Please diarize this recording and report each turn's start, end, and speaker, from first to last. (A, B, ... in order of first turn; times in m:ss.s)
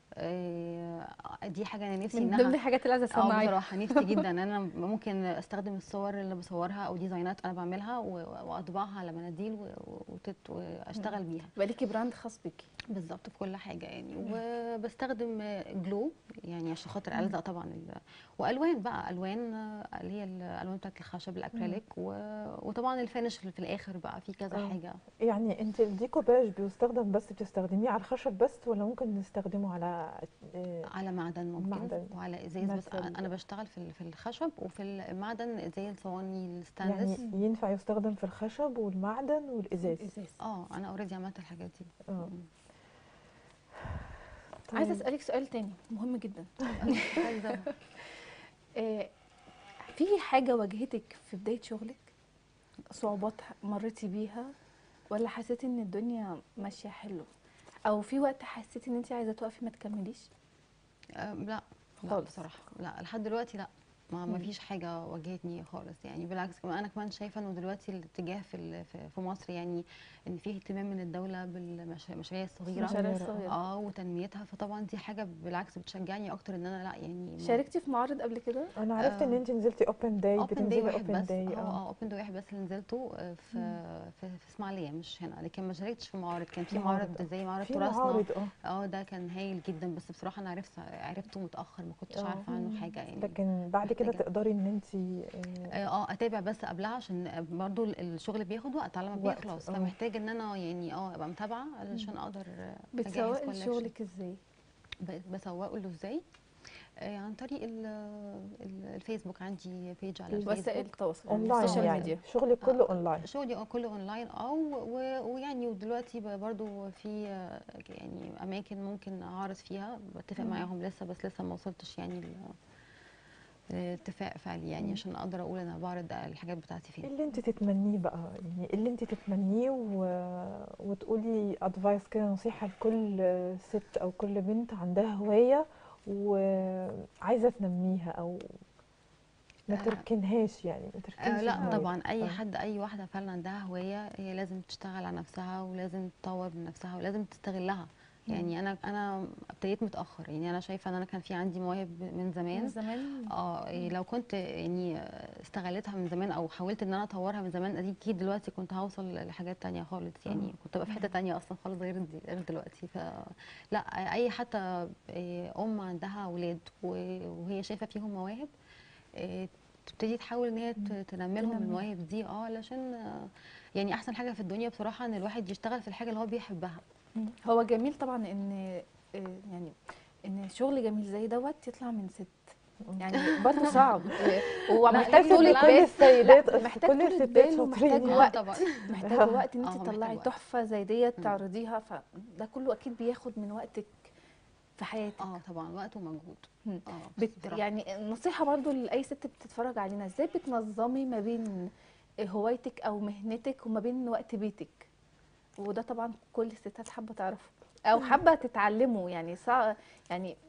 0:00.2-0:11.5 A
0:02.1-0:04.3 B
0:11.0-0:12.7 B
0:12.9-0:25.0 A
0:24.5-0:30.9 C
0:30.9-0:37.2 A
0:31.6-0:33.3 C
0:36.8-0:40.1 C
0:37.2-0:37.4 B
0:39.8-0:40.4 B
0:40.4-0:42.5 A
0:44.7-0:45.0 C
0:44.7-0:47.7 B
0:46.8-0:47.7 A
0:48.8-0:49.1 B
0:49.9-0:52.1 B
0:52.9-0:54.5 B
0:55.1-0:57.3 B
0:57.9-1:00.3 B
1:01.2-1:17.6 A
1:02.1-1:02.5 B
1:12.8-1:13.5 B
1:12.8-1:13.5 C
1:17.4-1:18.7 B
1:18.8-1:21.8 C
1:19.0-1:19.4 A
1:20.4-1:34.2 A
1:26.7-1:28.5 C
1:32.1-1:35.8 C
1:35.8-1:43.9 A
1:39.1-1:40.0 C
1:43.0-1:44.4 B
1:45.0-1:46.2 A
1:47.0-1:52.1 A
1:50.3-1:52.2 B
1:51.3-1:53.2 C
1:52.6-2:02.5 A
2:03.7-2:07.1 A
2:07.0-2:18.6 C
2:19.7-2:22.4 C
2:19.7-2:20.0 A
2:21.2-2:32.8 A
2:21.6-2:21.9 B
2:28.3-2:28.5 B
2:32.5-2:33.9 B
2:33.3-2:48.5 A
2:49.2-2:56.8 A
2:51.4-2:51.8 B
2:57.2-3:02.4 B
3:02.9-3:03.9 C
3:03.0-3:14.1 B
3:03.4-3:05.9 A
3:04.9-3:08.3 C
3:08.1-3:08.9 A
3:09.0-3:09.4 C
3:09.6-3:10.3 A
3:14.8-3:15.4 B
3:15.2-3:17.6 A
3:16.6-3:21.7 B
3:22.2-3:24.9 B
3:25.6-3:30.3 B